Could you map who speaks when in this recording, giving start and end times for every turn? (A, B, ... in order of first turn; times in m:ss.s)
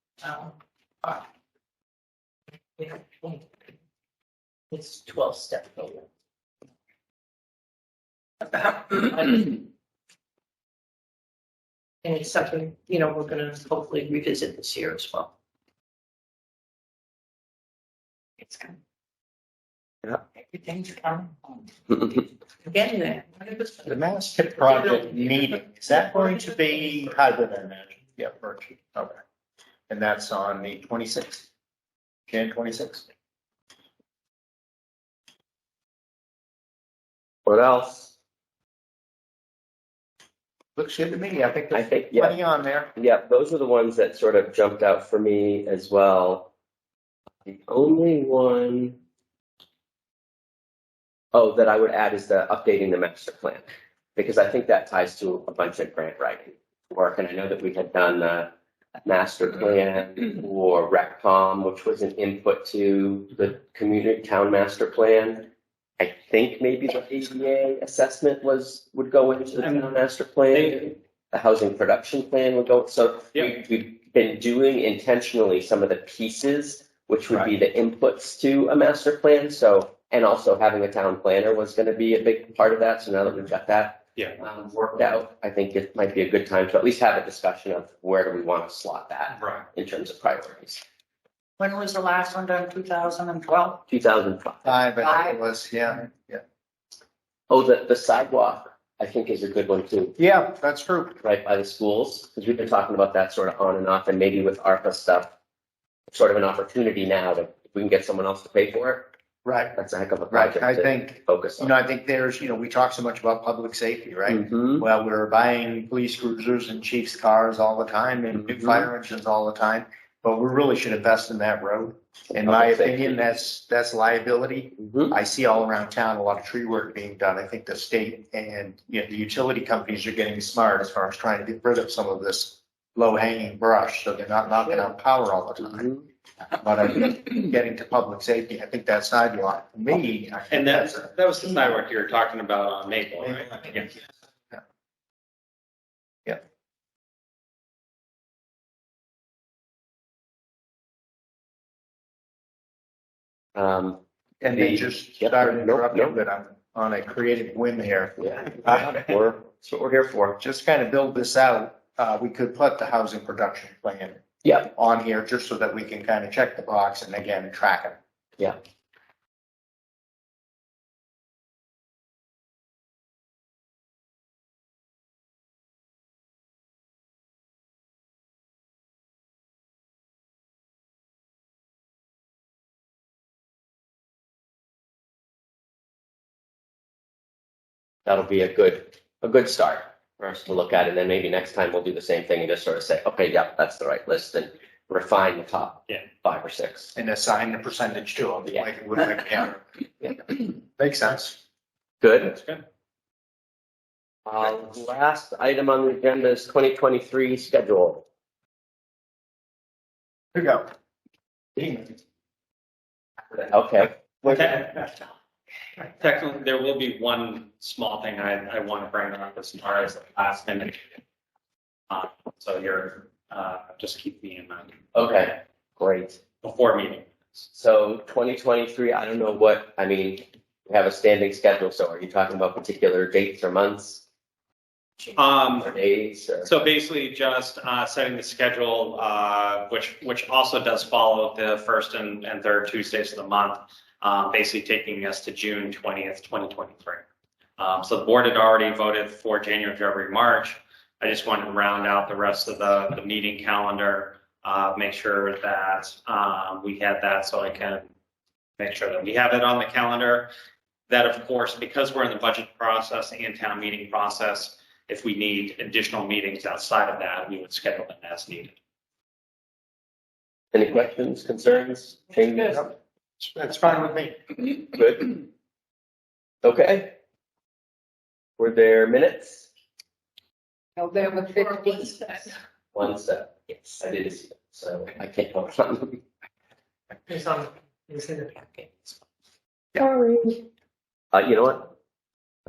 0:00.2-0:01.2 A
0:02.8-0:03.5 A
0:04.7-0:06.1 A
0:08.5-0:09.6 A
0:12.0-0:15.3 A
0:20.5-0:21.6 B
0:21.9-0:22.2 C
0:22.6-0:24.0 A
0:23.9-0:29.2 D
0:24.6-0:25.6 A
0:29.9-0:31.5 D
0:32.3-0:33.0 D
0:37.4-0:38.1 C
0:40.8-0:42.9 D
0:41.7-0:42.4 C
0:43.0-0:46.5 C
0:47.4-0:49.0 C
0:51.3-0:58.5 C
0:59.0-1:30.8 C
1:09.6-1:09.9 E
1:10.5-1:10.9 E
1:29.3-1:29.7 E
1:31.6-1:33.8 B
1:33.9-1:34.8 C
1:34.6-1:36.4 D
1:35.0-1:35.4 B
1:37.5-1:40.2 C
1:40.2-1:41.2 D
1:41.2-1:45.3 C
1:46.1-1:49.1 C
1:49.4-1:49.8 D
1:49.8-1:51.7 C
1:50.3-2:15.9 D
1:54.3-1:54.8 C
1:58.5-1:58.9 C
2:02.4-2:03.2 C
2:04.8-2:05.1 C
2:15.6-2:16.0 C
2:16.6-2:21.1 D
2:20.5-2:24.0 E
2:23.2-2:23.7 D
2:33.6-2:34.0 C
2:34.4-2:38.9 D
2:34.5-2:36.2 C
2:38.2-2:40.4 C
2:40.4-2:44.2 D
2:44.4-2:44.7 C
2:44.7-2:48.0 D
3:08.0-3:16.9 C
3:16.9-3:21.4 D
3:22.0-3:22.4 C
3:22.2-3:22.6 E
3:24.2-3:28.0 C
3:30.3-3:30.6 D
3:31.6-3:31.9 D
3:33.3-3:34.4 C
3:34.2-3:34.7 E
3:36.0-3:41.0 E
3:41.9-3:44.8 E
3:44.9-3:46.2 C
3:46.4-3:47.4 E
3:47.5-3:54.0 C
3:55.1-3:55.7 E
3:55.5-3:56.5 C
3:56.4-4:07.0 E
4:07.6-4:17.9 E
4:18.6-4:20.3 E
4:20.9-4:28.5 E
4:30.5-4:32.7 C
4:32.5-4:34.2 D
4:34.6-4:35.2 C
4:36.4-4:36.9 C
4:38.4-4:39.5 C
4:40.8-4:42.0 B
4:41.6-4:42.3 A
4:42.7-4:46.0 C
4:47.1-4:49.0 A
4:49.8-4:50.4 C
4:51.1-4:51.7 C